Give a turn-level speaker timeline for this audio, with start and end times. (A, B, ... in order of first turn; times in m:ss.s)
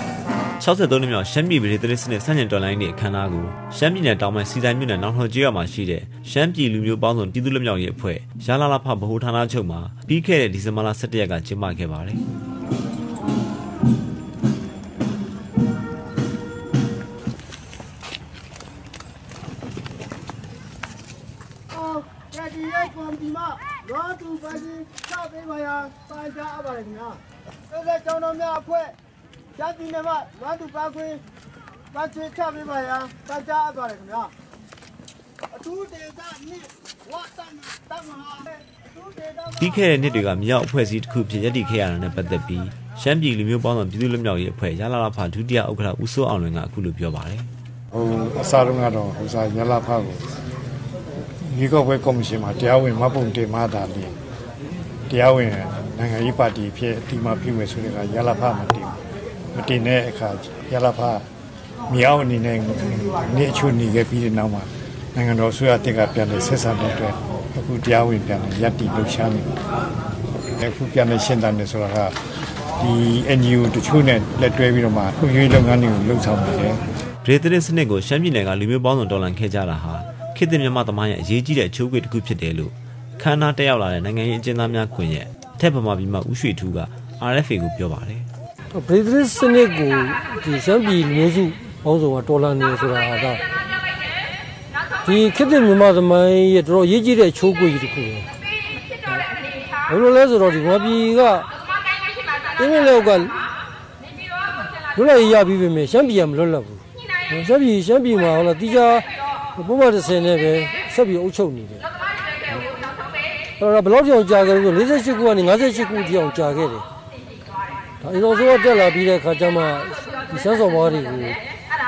0:00.6-0:12.2 A
0:21.9-0:27.2 B
0:27.7-0:28.9 B
0:29.6-0:31.2 B
0:32.0-0:34.3 B
0:35.6-0:38.5 B
0:39.5-0:47.5 A
0:47.9-0:50.3 C
0:51.5-0:54.1 C
0:55.1-0:59.0 C
0:59.5-1:01.2 C
1:01.9-1:09.6 C
1:10.6-1:12.2 C
1:12.8-1:16.8 C
1:17.2-1:28.3 A
1:28.7-1:33.4 D
1:35.0-1:38.3 D
1:39.9-1:41.5 D
1:42.6-1:43.4 D
1:45.0-1:51.9 D
1:53.6-1:56.9 D
1:58.0-2:01.4 D